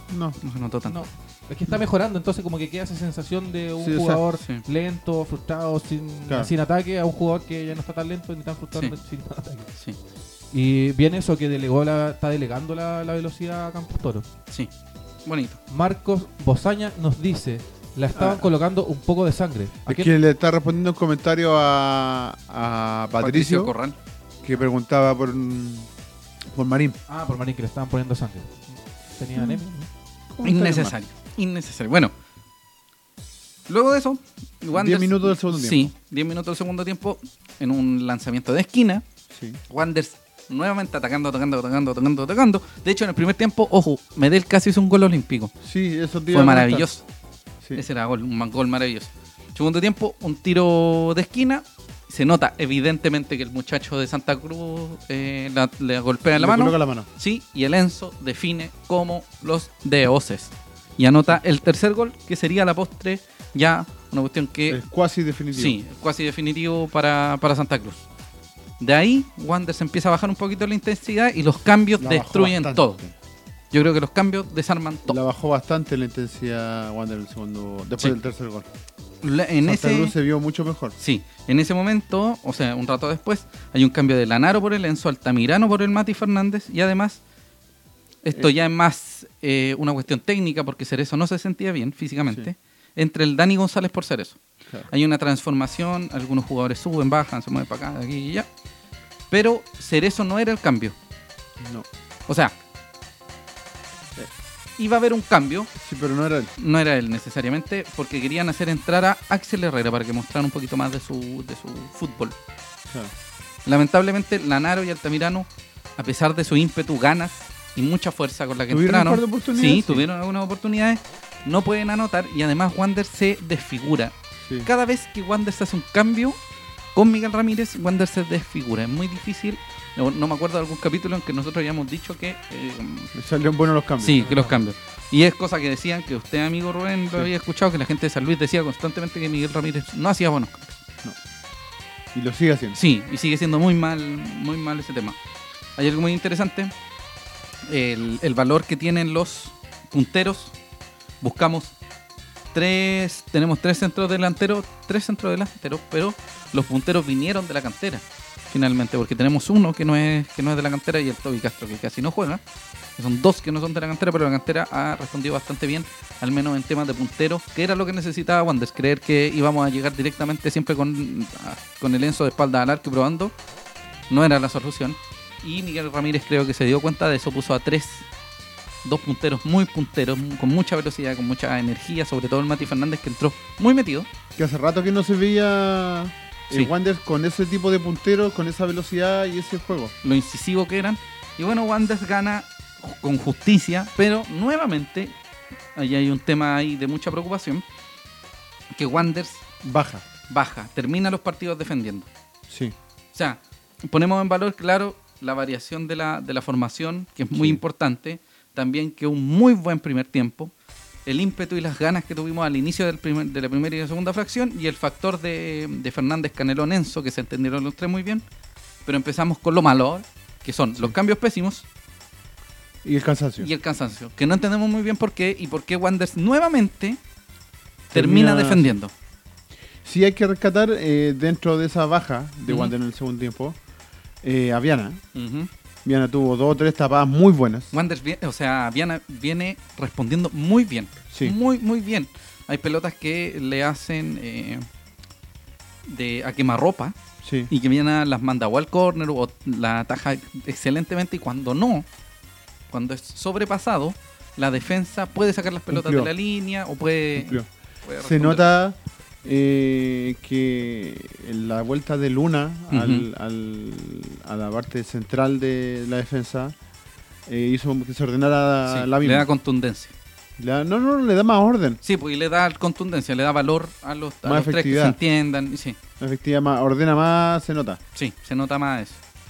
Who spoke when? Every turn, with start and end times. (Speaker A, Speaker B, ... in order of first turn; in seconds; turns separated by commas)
Speaker A: 0.1-0.4, Speaker B: 0.4-1.0, Speaker C: 0.9-9.7, Speaker A: 3.8-4.2, Speaker C: 10.5-14.2, Speaker B: 15.2-15.6, Speaker C: 15.7-20.1, Speaker A: 18.1-18.5, Speaker A: 19.9-23.7, Speaker B: 23.2-23.9, Speaker A: 24.4-25.9, Speaker A: 26.5-27.0, Speaker C: 27.1-29.9, Speaker A: 29.3-29.6, Speaker A: 30.3-30.9, Speaker B: 30.4-32.1, Speaker B: 33.7-39.0, Speaker A: 34.7-35.9, Speaker A: 39.3-39.6, Speaker B: 39.7-45.5, Speaker A: 45.6-46.9, Speaker B: 46.3-47.0, Speaker B: 47.7-64.8, Speaker A: 56.4-57.1, Speaker A: 64.7-65.8, Speaker B: 65.5-68.0, Speaker B: 68.8-73.0, Speaker A: 72.0-73.1, Speaker B: 73.7-75.2, Speaker A: 75.1-78.7, Speaker B: 79.2-80.1, Speaker A: 79.6-80.9, Speaker B: 81.0-87.2, Speaker B: 88.2-94.4, Speaker B: 94.9-98.5, Speaker B: 99.3-100.9, Speaker A: 101.6-101.9, Speaker B: 102.3-102.5, Speaker B: 104.8-105.7, Speaker A: 105.8-106.5, Speaker B: 106.6-112.3, Speaker B: 113.6-124.1, Speaker A: 118.7-120.0, Speaker B: 124.6-126.4, Speaker B: 126.9-133.1, Speaker A: 133.1-134.3, Speaker B: 134.0-140.8, Speaker C: 134.2-134.6, Speaker A: 142.1-142.8, Speaker B: 142.7-145.2, Speaker B: 145.8-146.7, Speaker B: 147.7-150.5, Speaker B: 151.2-151.7, Speaker B: 152.5-162.4, Speaker B: 163.0-173.3, Speaker B: 174.1-178.1, Speaker B: 178.8-184.1, Speaker A: 184.4-189.9, Speaker B: 190.0-195.1, Speaker B: 195.8-197.6, Speaker B: 198.7-199.4, Speaker A: 199.6-200.1, Speaker B: 200.3-202.1, Speaker A: 202.5-202.8, Speaker B: 203.1-210.5, Speaker A: 207.3-207.6, Speaker B: 211.1-218.2, Speaker B: 218.8-221.6, Speaker A: 222.8-223.5, Speaker B: 223.4-227.0, Speaker A: 227.9-228.7, Speaker B: 227.9-228.9, Speaker A: 229.8-233.6, Speaker B: 232.5-232.7, Speaker A: 234.2-235.0, Speaker B: 235.1-235.5, Speaker A: 235.8-237.7, Speaker B: 237.7-244.7, Speaker A: 241.1-241.3, Speaker B: 245.8-246.9, Speaker A: 247.2-247.5, Speaker B: 247.5-251.8, Speaker B: 252.7-258.4, Speaker A: 255.7-256.1, Speaker A: 257.1-257.5, Speaker A: 258.0-266.5, Speaker B: 262.7-263.1, Speaker A: 267.3-269.3, Speaker B: 268.7-269.9, Speaker A: 270.4-271.8, Speaker B: 271.8-275.8, Speaker A: 274.2-275.0, Speaker A: 276.0-277.8, Speaker B: 277.9-279.0